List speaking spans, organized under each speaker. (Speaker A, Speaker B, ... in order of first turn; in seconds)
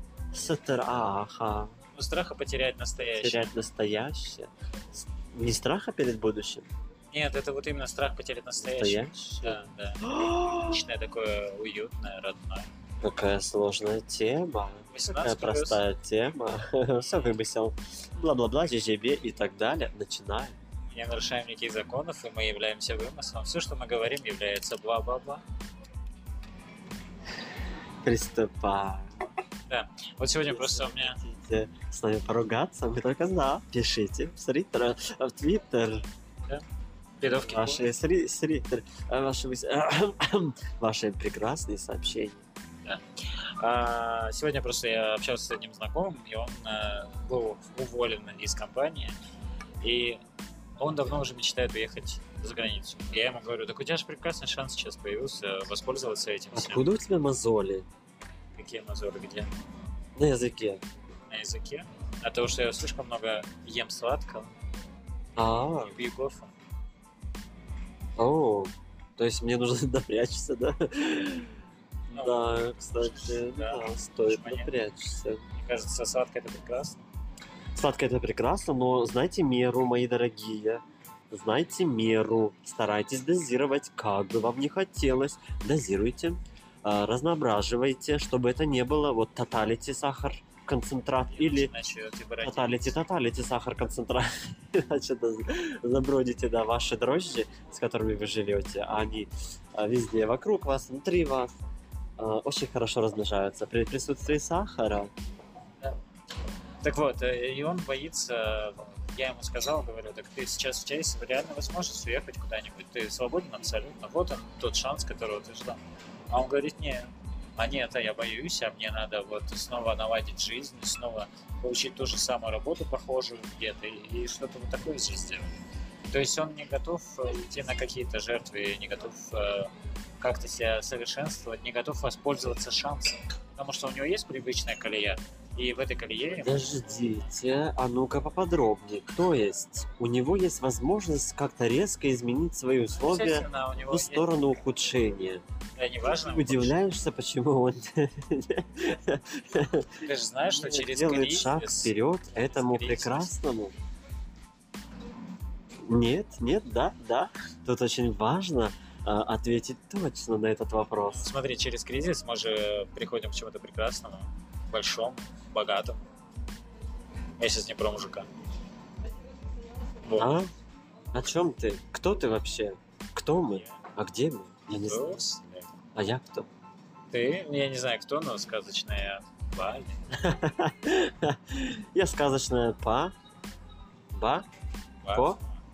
Speaker A: 0.3-1.7, 3.1-6.7, 8.6-10.8, 13.0-20.6, 28.0-29.3, 30.5-36.1, 37.4-42.4, 56.5-57.9, 60.2-60.8, 65.4-65.9, 68.2-71.5, 72.1-75.4, 77.7-91.7, 92.4-101.5, 102.2-105.1, 136.4-145.4, 146.1-153.7, 155.9-161.3, 170.2-170.5, 171.1-175.2, 175.9-176.5, 180.2-183.1, 184.1-184.5, 185.1-185.4
Speaker B: 1.9-3.6, 7.1-12.7, 14.9-15.8, 20.9-25.4, 29.7-31.2, 37.2-37.9, 42.9-49.1, 49.8-50.2, 50.8-56.9, 58.5-59.5, 61.3-64.5, 65.8-66.5, 72.1-74.7, 75.6-77.0, 91.3-92.9, 106.8-125.6, 126.1-137.1, 142.9-144.3, 145.8-146.8, 150.0-153.3, 161.1-166.1, 167.4-168.3, 170.1-170.3, 173.5-173.8, 174.7-175.7, 177.1-180.0, 185.0-185.6